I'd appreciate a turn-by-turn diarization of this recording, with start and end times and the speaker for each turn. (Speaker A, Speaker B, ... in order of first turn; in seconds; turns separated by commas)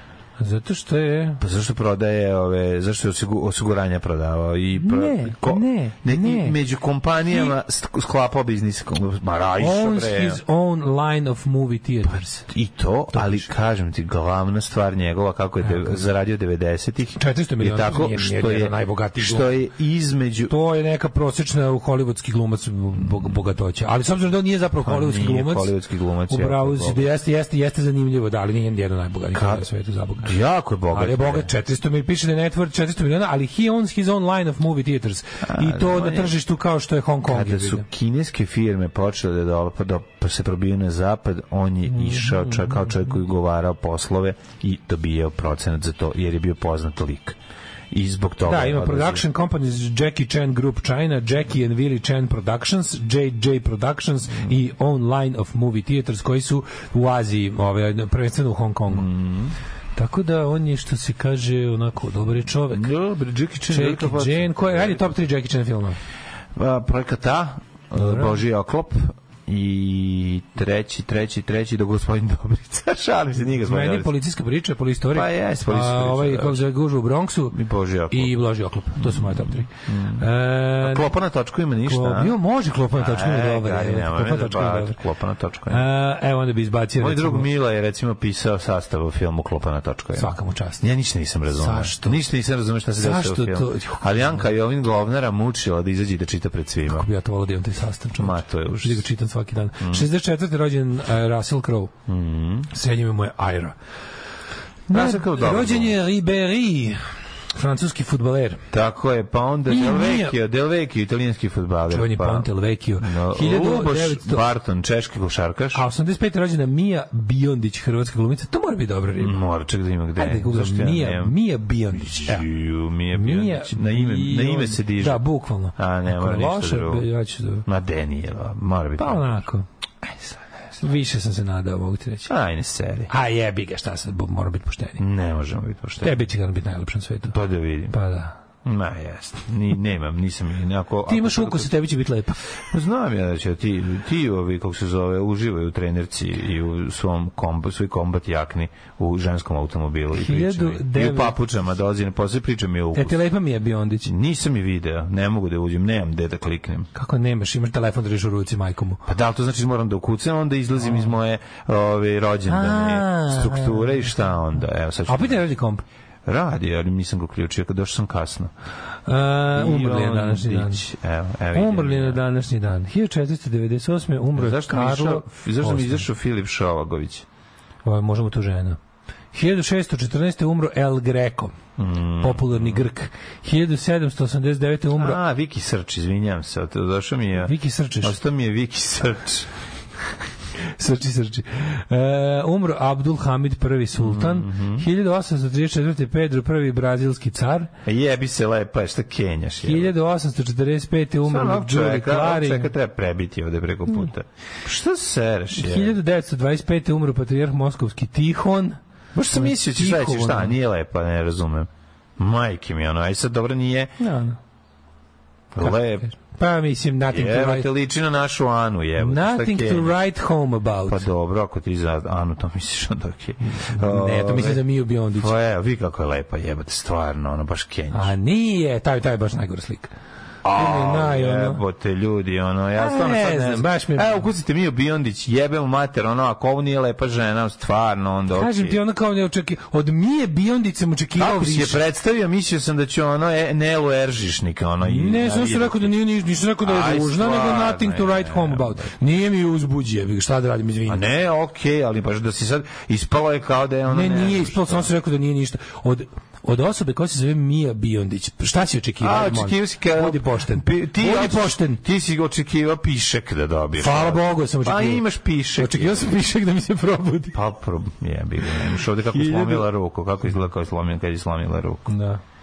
Speaker A: 0.4-1.4, Speaker B: 1.4-10.4, Speaker A: 4.8-6.6, Speaker A: 9.6-12.5, Speaker B: 12.1-20.5, Speaker A: 13.1-13.5, Speaker A: 15.6-16.1, Speaker A: 17.2-19.5, Speaker A: 20.5-25.7, Speaker B: 23.0-23.3, Speaker B: 24.8-27.1, Speaker A: 26.3-30.4, Speaker B: 29.3-29.7, Speaker B: 30.2-31.5, Speaker A: 30.9-37.9, Speaker B: 35.4-36.4, Speaker B: 37.2-47.4, Speaker A: 41.9-43.1, Speaker B: 47.9-49.2, Speaker A: 48.4-59.1, Speaker B: 58.9-59.5, Speaker A: 60.0-62.9, Speaker B: 62.7-65.2, Speaker A: 63.6-66.0, Speaker B: 66.5-74.1, Speaker A: 68.0-68.4, Speaker A: 73.6-77.6, Speaker B: 75.1-76.6, Speaker B: 77.5-78.4, Speaker A: 78.1-81.1, Speaker B: 78.9-82.4, Speaker A: 81.8-85.0, Speaker B: 82.9-85.8, Speaker A: 85.7-87.5, Speaker B: 87.0-97.1, Speaker A: 90.2-90.8, Speaker A: 91.5-92.2, Speaker A: 93.0-94.4, Speaker A: 96.9-101.9, Speaker B: 98.2-99.1, Speaker B: 99.8-100.1, Speaker B: 102.1-102.7, Speaker A: 102.7-103.7, Speaker B: 104.9-106.0, Speaker A: 104.9-107.0, Speaker A: 107.5-108.6, Speaker B: 108.7-112.5, Speaker A: 109.7-110.4, Speaker A: 111.9-114.5, Speaker B: 113.0-115.8, Speaker A: 115.7-119.4, Speaker B: 119.2-121.3, Speaker A: 120.2-122.5, Speaker B: 121.9-127.1, Speaker A: 123.1-127.7, Speaker B: 127.7-129.4, Speaker A: 129.0-129.6, Speaker B: 130.0-130.4, Speaker A: 130.8-132.3, Speaker B: 132.3-133.1, Speaker A: 133.1-135.0, Speaker B: 135.0-136.2, Speaker A: 136.0-137.3, Speaker B: 137.3-137.9, Speaker A: 137.9-138.4, Speaker B: 138.6-141.7, Speaker A: 141.1-142.4, Speaker B: 142.7-153.2, Speaker A: 150.1-151.3, Speaker A: 152.9-154.1, Speaker B: 154.0-156.9, Speaker A: 156.9-159.0, Speaker B: 159.1-165.4, Speaker A: 162.5-164.1, Speaker A: 165.1-165.8, Speaker B: 166.2-168.5, Speaker A: 169.1-170.9, Speaker B: 169.5-172.2, Speaker A: 171.5-176.1, Speaker B: 174.3-177.2, Speaker A: 177.8-178.8, Speaker A: 179.3-181.6, Speaker B: 181.8-182.8, Speaker A: 182.2-185.2, Speaker B: 184.9-189.5, Speaker A: 187.4-188.1, Speaker A: 190.8-197.7, Speaker B: 194.0-194.8, Speaker B: 197.8-199.9, Speaker A: 199.6-202.7, Speaker B: 201.2-206.0, Speaker A: 205.5-208.8, Speaker B: 209.1-213.9, Speaker A: 209.3-210.6, Speaker A: 214.0-214.4, Speaker B: 215.5-216.1, Speaker A: 215.6-217.7, Speaker B: 217.1-219.9, Speaker A: 219.0-221.1, Speaker B: 220.9-228.1, Speaker A: 223.4-225.3, Speaker A: 227.9-229.9, Speaker B: 230.4-238.8, Speaker A: 230.5-231.6, Speaker A: 232.8-234.3, Speaker A: 238.3-241.8, Speaker B: 241.2-245.9, Speaker A: 244.8-251.1, Speaker B: 246.6-248.9, Speaker B: 250.9-254.9, Speaker A: 253.9-261.8, Speaker B: 259.0-266.1, Speaker A: 263.8-265.0, Speaker A: 265.6-267.4, Speaker B: 267.3-271.8, Speaker A: 269.1-269.7, Speaker A: 271.9-272.2